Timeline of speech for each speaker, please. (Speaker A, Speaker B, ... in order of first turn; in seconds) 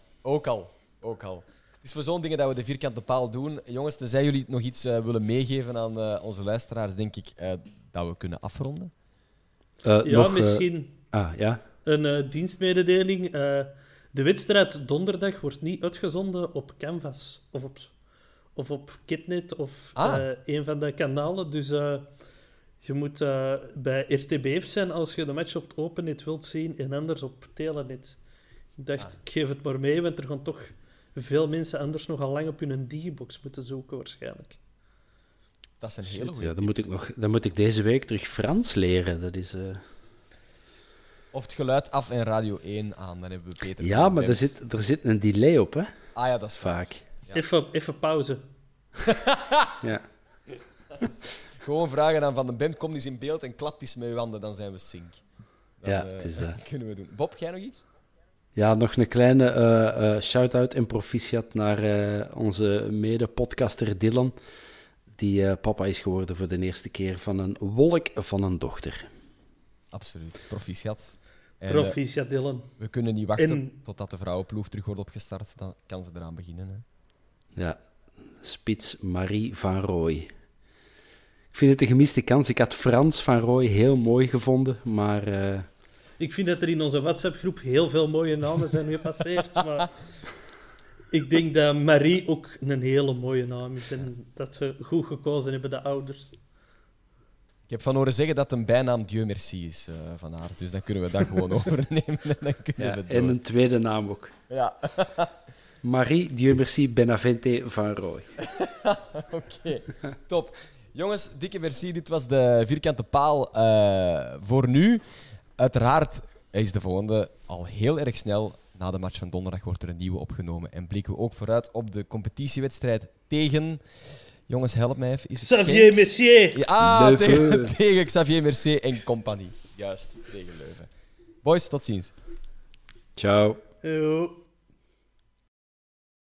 Speaker A: 0.2-8.9, 19.9-20.2, 35.8-36.9, 41.3-44.5, 46.1-47.4, 49.1-49.8, 51.0-55.2, 55.8-57.8, 69.9-72.0, 72.8-76.8, 97.7-103.3, 104.5-105.3, 108.4-115.0, 115.6-126.0, 126.5-130.9, 131.4-132.1
Speaker B: 9.8-11.6, 36.1-39.8, 43.8-45.9, 46.6-47.0, 55.8-56.6, 58.5-64.3, 65.2-69.1, 78.3-80.3, 81.5-85.7, 102.8-104.3, 105.8-108.3, 126.8-127.8, 133.2-133.6
Speaker C: 10.0-10.9, 11.8-17.9, 18.5-22.1, 22.8-28.2, 28.8-34.6, 47.3-48.4, 71.7-72.7, 73.4-73.7, 86.2-89.9, 91.1-96.3, 125.4-126.6, 133.8-134.4